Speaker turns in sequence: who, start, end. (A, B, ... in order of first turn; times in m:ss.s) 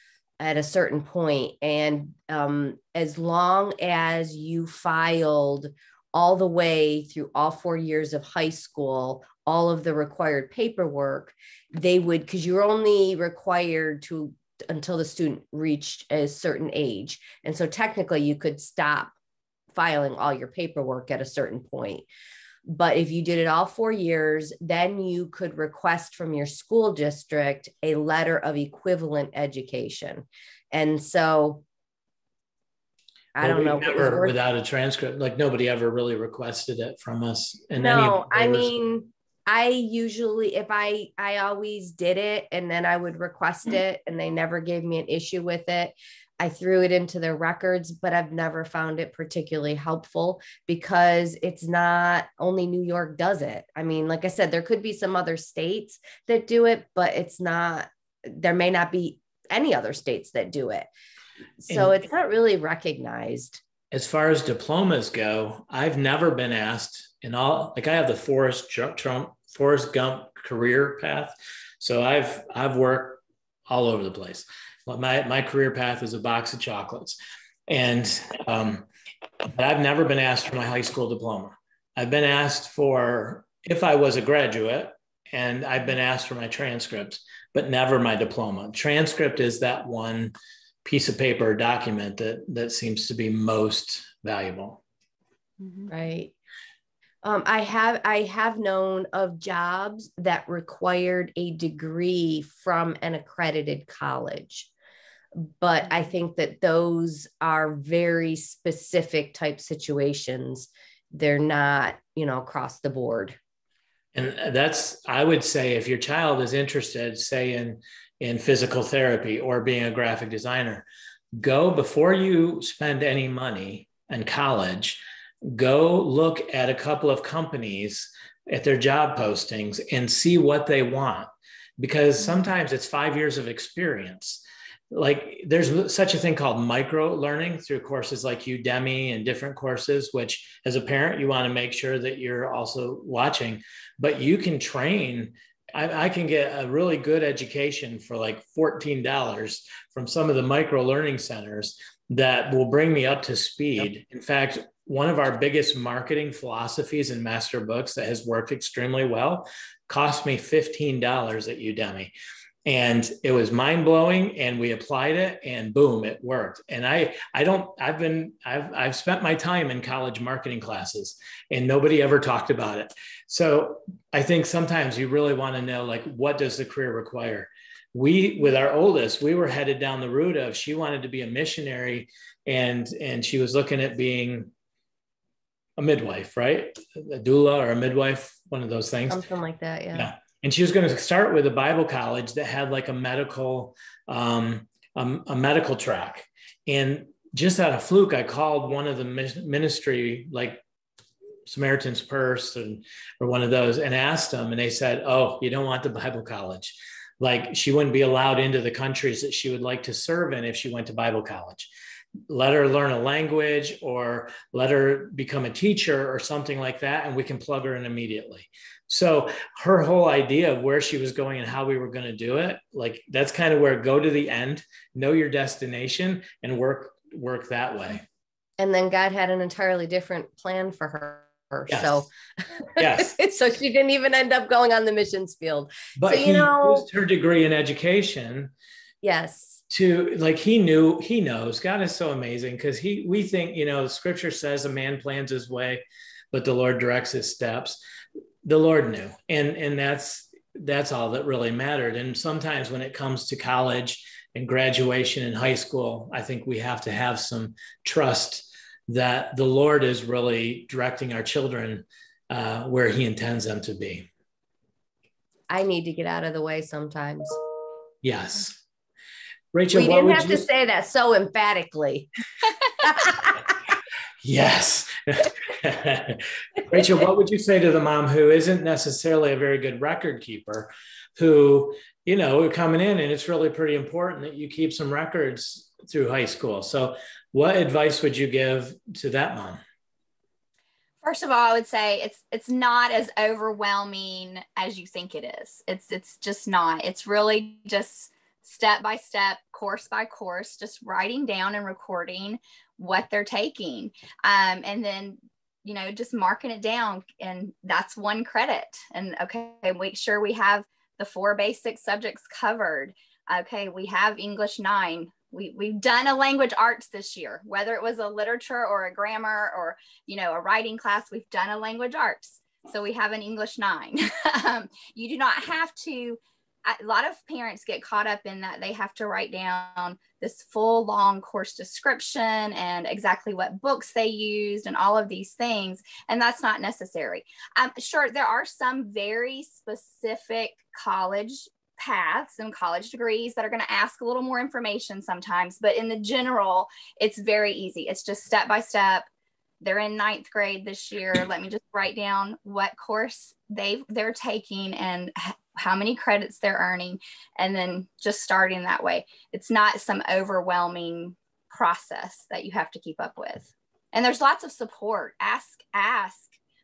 0:00.4-0:19.1 A
0:19.7-0:22.1 A
0:22.6-0:31.6 A
0:33.4-0:34.3 A
0:33.4-0:38.7 B
0:37.8-1:00.9 A
1:01.6-1:03.6 A
1:01.7-1:02.0 B
1:03.9-1:18.8 B
1:19.5-1:30.3 B
1:30.8-1:34.8 B
1:35.9-1:36.3 A
1:37.2-1:44.7 A
1:45.3-1:53.4 A
1:54.1-2:11.3 B
2:11.8-2:42.1 B
2:42.6-3:04.5 B
3:05.8-3:09.2 B
3:09.1-3:10.1 A
3:09.9-3:20.6 B
3:21.5-3:31.7 B
3:32.3-3:48.0 B
3:48.6-3:56.8 A
3:51.7-3:52.1 B
3:52.8-3:53.2 B
3:56.0-3:58.5 B
3:59.0-3:59.6 A
3:59.7-4:07.8 B
4:08.4-4:24.1 B
4:25.5-4:27.4 A
4:28.0-4:28.6 B
4:29.5-4:30.4 B
4:29.7-4:32.1 A
4:32.8-4:33.4 A
4:34.2-4:49.6 B
4:51.0-5:49.1 C
5:49.6-6:06.4 C